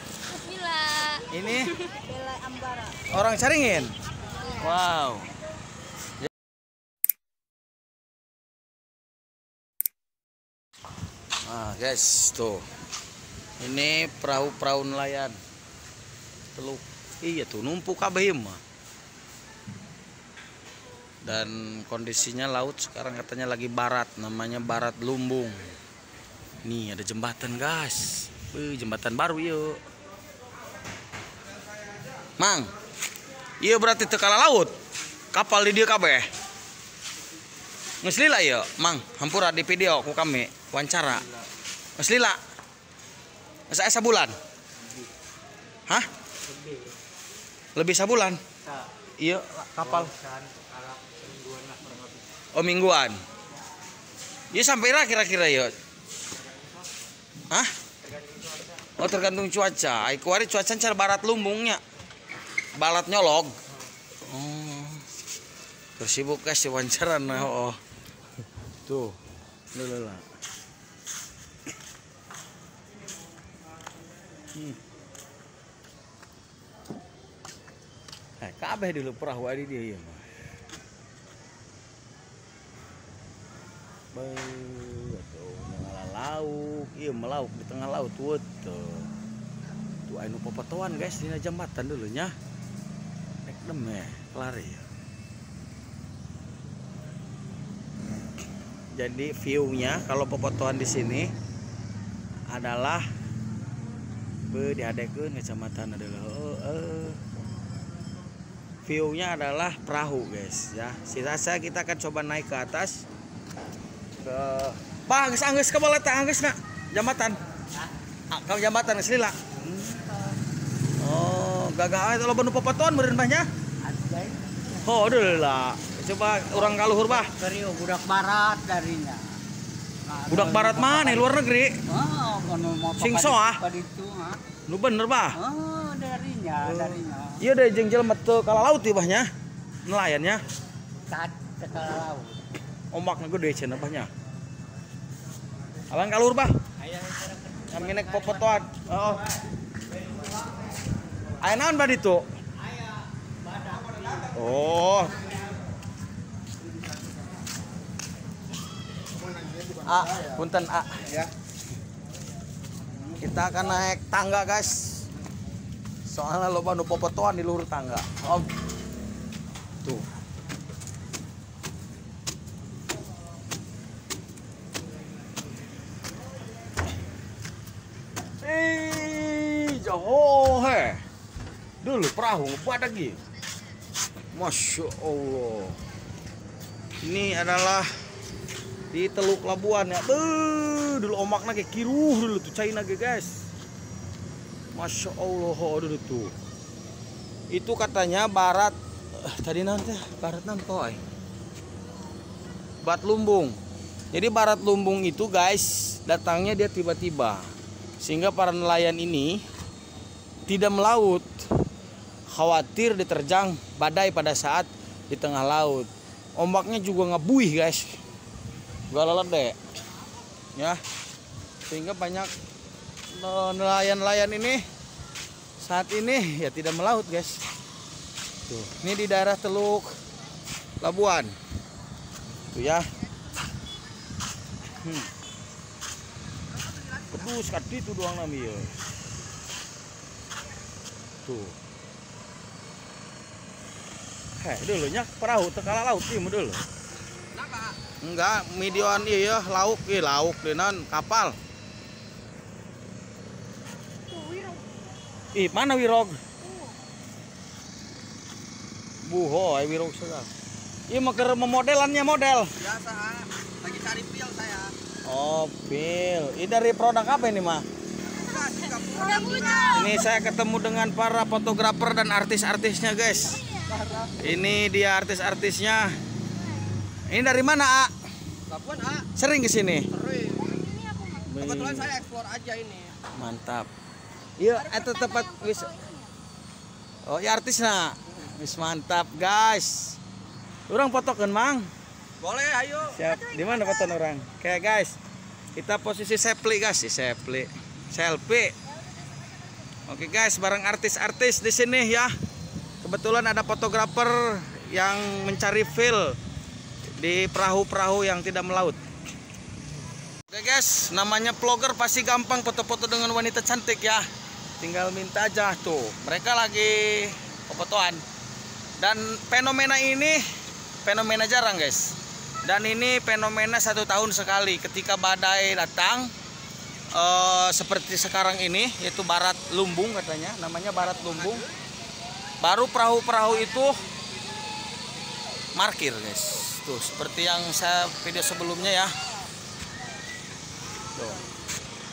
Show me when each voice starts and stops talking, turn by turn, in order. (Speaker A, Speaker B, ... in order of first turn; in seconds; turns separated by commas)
Speaker A: 0.3-1.2, Speaker B: 1.3-1.8, Speaker A: 2.0-3.0, Speaker B: 3.0-4.0, Speaker B: 4.5-5.3, Speaker B: 11.4-12.7, Speaker B: 13.6-15.4, Speaker B: 16.6-18.6, Speaker B: 21.2-25.7, Speaker B: 26.6-29.8, Speaker B: 32.4-32.7, Speaker B: 33.6-34.8, Speaker B: 35.3-36.3, Speaker B: 38.0-41.3, Speaker B: 42.0-42.4, Speaker B: 43.7-44.3, Speaker C: 46.5-46.8, Speaker B: 47.8-48.4, Speaker B: 49.2-50.1, Speaker C: 49.9-52.0, Speaker B: 52.5-53.2, Speaker B: 54.5-55.7, Speaker B: 59.0-61.8, Speaker B: 62.8-63.6, Speaker B: 64.3-65.1, Speaker B: 66.0-67.8, Speaker B: 68.9-69.2, Speaker B: 69.7-70.3, Speaker B: 78.4-80.3, Speaker B: 84.1-89.1, Speaker B: 90.1-92.3, Speaker B: 93.5-94.8, Speaker B: 98.9-101.3, Speaker B: 102.5-103.1, Speaker B: 104.4-107.2, Speaker B: 108.8-113.0, Speaker B: 114.2-117.4, Speaker B: 118.3-119.4, Speaker C: 119.7-120.3, Speaker B: 121.0-123.5, Speaker C: 123.8-124.8, Speaker B: 124.8-127.3, Speaker C: 126.6-129.4, Speaker C: 130.1-131.3, Speaker B: 130.3-131.8, Speaker C: 131.9-134.4, Speaker B: 133.0-133.6, Speaker B: 134.7-135.4, Speaker C: 135.3-137.4, Speaker B: 136.6-139.3, Speaker B: 139.8-140.4, Speaker C: 141.1-142.4, Speaker B: 142.9-144.1, Speaker B: 145.9-146.5, Speaker C: 147.0-148.4, Speaker B: 147.7-149.2, Speaker B: 151.4-152.3, Speaker B: 154.2-155.3, Speaker B: 159.8-161.3, Speaker B: 163.2-165.1, Speaker B: 166.1-168.5, Speaker B: 178.4-181.0, Speaker B: 181.8-183.2, Speaker B: 184.3-185.8, Speaker B: 187.0-187.9, Speaker B: 188.9-193.3, Speaker B: 194.7-196.3, Speaker B: 197.5-201.0, Speaker B: 202.8-203.6, Speaker B: 204.1-209.4, Speaker B: 210.5-211.5, Speaker B: 212.3-218.0, Speaker B: 218.9-219.6, Speaker B: 221.7-222.3, Speaker B: 223.1-224.6, Speaker B: 225.6-227.4, Speaker B: 228.5-229.9, Speaker B: 230.8-231.3, Speaker B: 232.5-232.8, Speaker B: 234.8-235.1, Speaker B: 237.1-238.8, Speaker B: 241.2-241.6, Speaker B: 244.4-246.6, Speaker D: 247.3-247.8, Speaker B: 248.0-251.4, Speaker D: 254.2-254.6, Speaker B: 255.3-256.2, Speaker B: 259.0-260.3, Speaker B: 260.9-262.5, Speaker D: 262.6-264.7, Speaker B: 265.1-267.6, Speaker D: 268.1-269.9, Speaker A: 269.2-269.6, Speaker B: 269.7-273.5, Speaker D: 273.7-274.1, Speaker B: 274.1-275.9, Speaker B: 277.1-277.9, Speaker D: 278.5-279.1, Speaker B: 279.1-279.9, Speaker D: 279.9-280.6, Speaker A: 280.5-281.3, Speaker B: 281.2-282.0, Speaker D: 281.4-283.0, Speaker B: 283.1-283.7, Speaker B: 284.4-285.7, Speaker A: 284.7-286.1, Speaker B: 287.1-290.0, Speaker B: 290.7-291.7, Speaker D: 292.2-293.1, Speaker B: 292.8-295.0, Speaker B: 295.6-298.5, Speaker B: 299.9-302.1, Speaker B: 302.8-306.2, Speaker B: 307.0-308.8, Speaker B: 310.3-314.1, Speaker B: 314.6-318.0, Speaker B: 318.8-320.2, Speaker B: 320.9-326.1, Speaker B: 326.9-331.4, Speaker B: 332.4-333.8, Speaker B: 335.6-338.9, Speaker B: 340.9-341.2